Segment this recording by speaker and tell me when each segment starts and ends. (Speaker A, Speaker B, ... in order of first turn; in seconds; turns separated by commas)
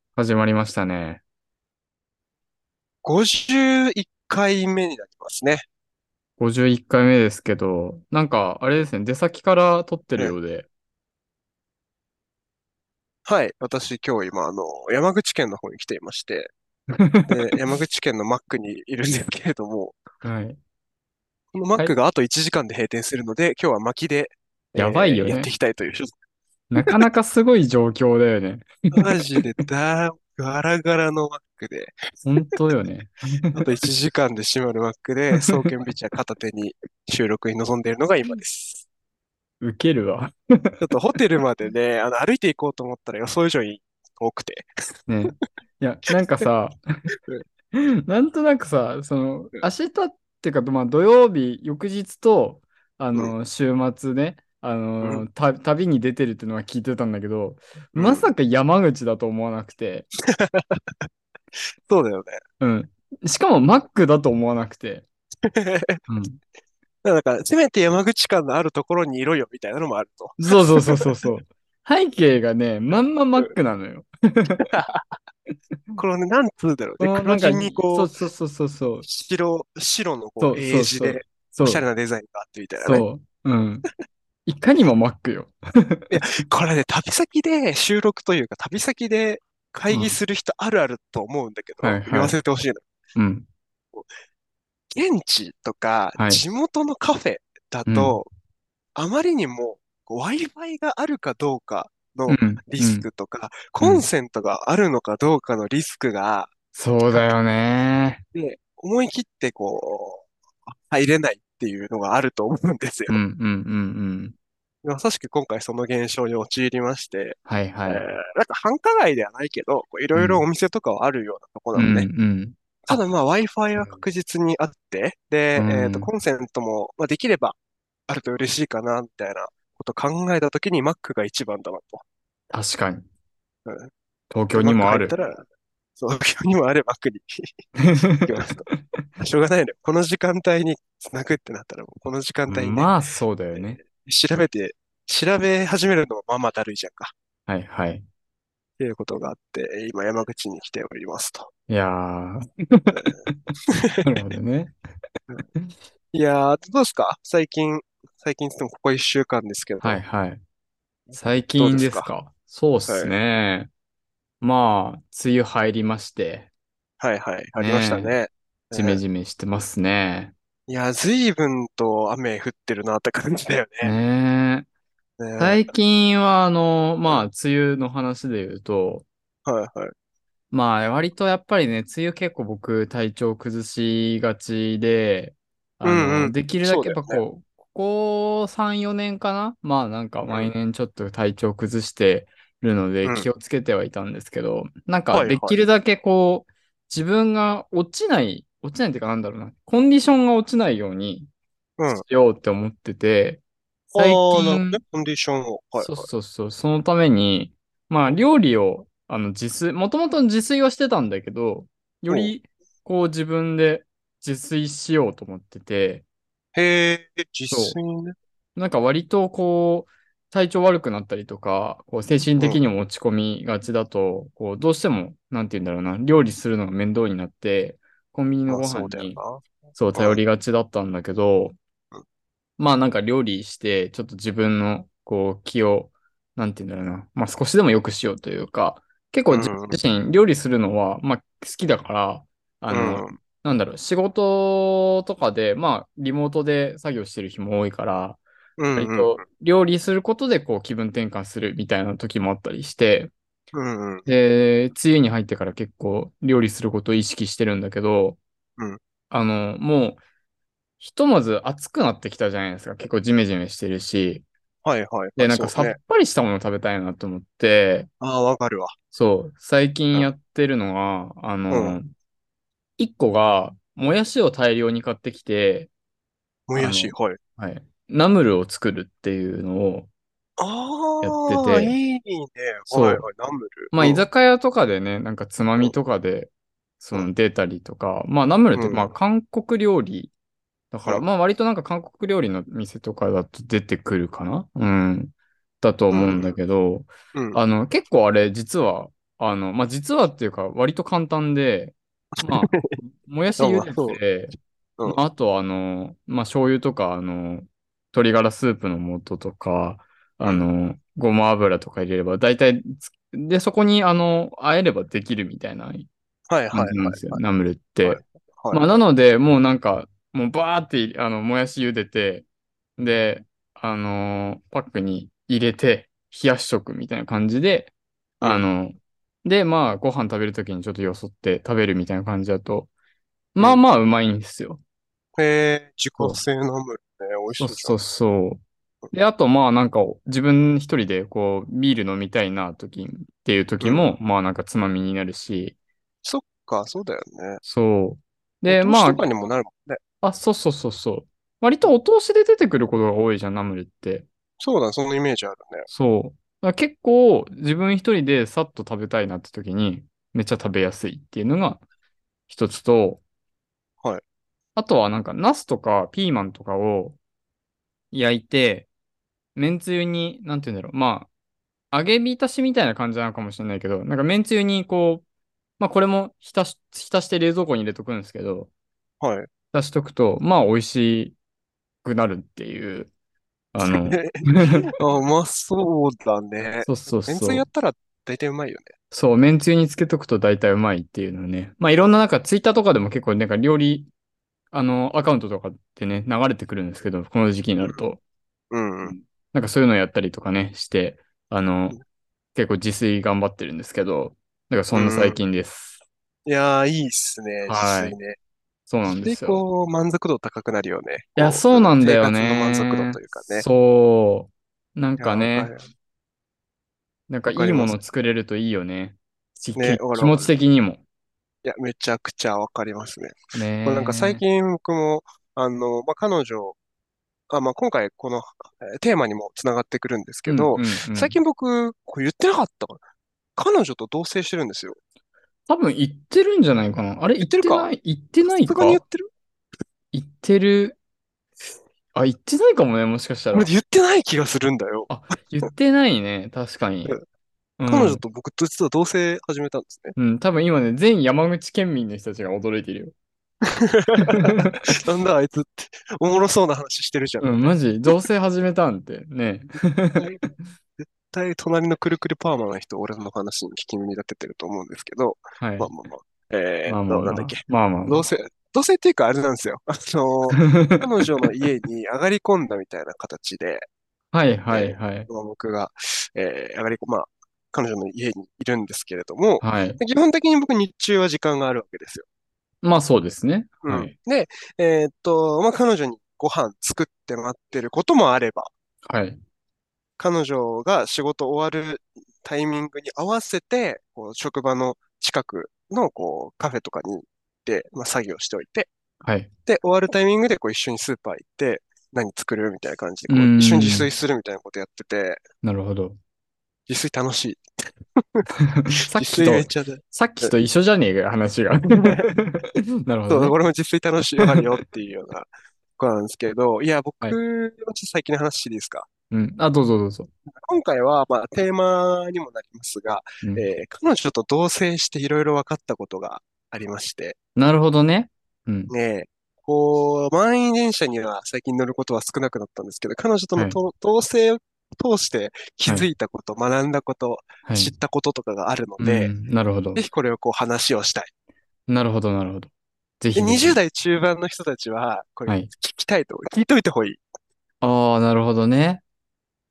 Speaker A: 0.1-1.2, Speaker B: 3.0-5.6, Speaker A: 6.4-10.7, Speaker B: 13.2-16.5, Speaker A: 16.9-17.3, Speaker B: 17.3-20.0, Speaker A: 20.2-20.6, Speaker B: 21.5-26.1, Speaker A: 24.8-25.5, Speaker A: 26.7-29.2, Speaker B: 28.9-32.6, Speaker A: 32.2-33.6, Speaker B: 33.5-38.9, Speaker A: 39.6-40.8, Speaker B: 40.8-44.7, Speaker A: 45.1-46.8, Speaker A: 47.7-60.1, Speaker B: 57.9-58.3, Speaker B: 60.3-61.1, Speaker B: 61.9-62.4, Speaker A: 62.6-65.0, Speaker B: 65.4-66.0, Speaker A: 66.1-66.4, Speaker B: 67.0-71.1, Speaker A: 70.4-74.7, Speaker B: 74.7-75.2, Speaker B: 76.0-78.1, Speaker A: 77.0-79.0, Speaker B: 79.0-83.0, Speaker A: 80.4-81.8, Speaker A: 82.8-83.9, Speaker A: 84.5-86.1, Speaker B: 86.1-92.8, Speaker A: 89.9-90.2, Speaker A: 91.8-92.3, Speaker A: 93.2-93.5, Speaker B: 94.9-98.3, Speaker A: 97.8-98.2, Speaker B: 99.0-106.5, Speaker A: 102.3-103.1, Speaker A: 103.8-104.0, Speaker A: 106.7-108.2, Speaker B: 108.3-113.2, Speaker A: 113.1-114.3, Speaker B: 114.8-122.1, Speaker A: 117.5-118.0, Speaker A: 120.1-120.4, Speaker A: 121.7-123.0, Speaker B: 122.8-127.6, Speaker A: 125.5-126.1, Speaker B: 128.1-132.0, Speaker A: 132.5-133.1, Speaker B: 133.7-133.9, Speaker A: 134.3-135.1, Speaker B: 134.5-135.4, Speaker B: 136.0-137.7, Speaker A: 137.8-139.0, Speaker B: 138.2-138.7, Speaker B: 139.2-142.9, Speaker A: 142.5-143.8, Speaker B: 143.5-147.1, Speaker A: 147.5-148.1, Speaker B: 148.8-151.5, Speaker A: 151.7-153.4, Speaker B: 153.7-154.2, Speaker A: 154.0-154.8, Speaker B: 156.1-160.0, Speaker A: 159.8-160.4, Speaker B: 161.1-162.1, Speaker A: 161.1-163.7, Speaker B: 162.8-163.1, Speaker A: 164.4-166.5, Speaker B: 167.0-169.0, Speaker A: 167.6-168.2, Speaker A: 168.7-170.3, Speaker B: 170.7-173.9, Speaker A: 173.8-174.7, Speaker B: 175.2-175.7, Speaker A: 175.4-179.1, Speaker B: 179.4-179.9, Speaker A: 180.5-201.3, Speaker B: 185.8-187.2, Speaker B: 190.2-190.5, Speaker B: 195.1-195.6, Speaker B: 201.8-202.0, Speaker A: 201.9-203.4, Speaker B: 203.9-206.1, Speaker A: 204.0-204.8, Speaker A: 205.8-216.0, Speaker B: 216.5-218.2, Speaker A: 217.5-217.8, Speaker A: 218.6-229.2, Speaker B: 228.5-230.2, Speaker A: 229.7-231.6, Speaker A: 232.6-248.2, Speaker B: 239.3-239.8, Speaker B: 242.7-243.2, Speaker B: 248.6-249.2, Speaker A: 248.7-253.1, Speaker B: 253.5-254.1, Speaker A: 254.1-258.2, Speaker A: 259.1-260.0, Speaker A: 260.8-264.2, Speaker B: 264.6-265.8, Speaker A: 265.2-267.9, Speaker B: 268.0-268.8, Speaker A: 268.9-271.9, Speaker B: 271.5-271.8, Speaker A: 272.8-275.7, Speaker B: 276.5-277.2, Speaker A: 276.6-279.9, Speaker B: 280.4-284.0, Speaker A: 281.0-281.7, Speaker A: 282.7-283.0, Speaker A: 283.7-290.1, Speaker B: 288.5-288.9, Speaker A: 290.7-304.3, Speaker B: 295.9-296.4, Speaker B: 297.1-297.4, Speaker B: 302.1-302.8, Speaker B: 303.4-304.0, Speaker A: 304.9-315.9, Speaker B: 310.2-310.5, Speaker B: 316.3-317.2, Speaker A: 316.5-322.2, Speaker B: 317.8-318.6, Speaker A: 322.8-332.7, Speaker A: 333.3-334.6, Speaker B: 335.2-337.8, Speaker A: 336.0-336.2, Speaker A: 337.4-345.6, Speaker B: 346.0-347.4, Speaker A: 347.4-349.0, Speaker B: 348.5-349.8, Speaker A: 350.0-354.1, Speaker B: 354.4-355.7, Speaker A: 355.7-361.6, Speaker A: 362.3-363.0, Speaker A: 364.6-367.0, Speaker A: 367.9-368.7, Speaker A: 369.4-371.1, Speaker A: 371.7-375.0, Speaker A: 375.6-378.5, Speaker B: 379.0-379.3, Speaker A: 379.5-381.2, Speaker A: 381.8-382.9, Speaker A: 383.5-384.6, Speaker B: 383.6-388.8, Speaker A: 386.6-387.4, Speaker A: 388.9-393.9, Speaker A: 394.5-398.0, Speaker B: 398.5-399.0, Speaker A: 398.8-401.8, Speaker A: 402.3-405.8, Speaker B: 404.7-405.2, Speaker B: 406.2-408.2, Speaker A: 407.5-407.9, Speaker A: 408.7-409.4, Speaker B: 408.9-413.4, Speaker A: 411.1-415.5, Speaker B: 415.0-415.7, Speaker A: 417.1-420.8, Speaker B: 417.3-417.8, Speaker B: 419.6-420.3, Speaker B: 421.4-426.6, Speaker A: 423.3-424.2, Speaker B: 427.3-432.8, Speaker A: 430.2-431.2, Speaker B: 433.4-434.8, Speaker A: 435.5-438.8, Speaker B: 437.2-437.7, Speaker B: 438.4-439.1, Speaker A: 439.9-440.8, Speaker A: 441.9-443.5, Speaker B: 443.3-444.9, Speaker A: 444.9-447.0, Speaker A: 447.6-448.0, Speaker B: 447.7-449.9, Speaker A: 449.9-452.9, Speaker B: 453.5-457.9, Speaker A: 454.1-454.6, Speaker A: 457.2-460.3, Speaker B: 460.0-460.2, Speaker B: 461.1-473.7, Speaker A: 465.4-465.7, Speaker A: 466.7-468.0, Speaker A: 470.3-470.8, Speaker A: 474.1-475.1, Speaker B: 474.5-482.0, Speaker A: 479.4-479.8, Speaker A: 482.6-483.9, Speaker B: 483.6-488.5, Speaker A: 488.8-489.2, Speaker B: 490.0-498.7, Speaker A: 499.0-499.3, Speaker B: 499.4-505.2, Speaker A: 503.1-503.9, Speaker A: 505.4-506.0, Speaker B: 506.7-510.3, Speaker A: 508.4-513.3, Speaker B: 511.8-512.1, Speaker B: 513.1-518.9, Speaker A: 519.1-520.1, Speaker B: 520.4-527.2, Speaker A: 527.4-528.7, Speaker B: 528.7-539.1, Speaker A: 537.4-537.7, Speaker A: 538.8-539.8, Speaker B: 539.8-541.1, Speaker A: 541.7-543.6, Speaker B: 543.1-547.0, Speaker A: 547.6-548.8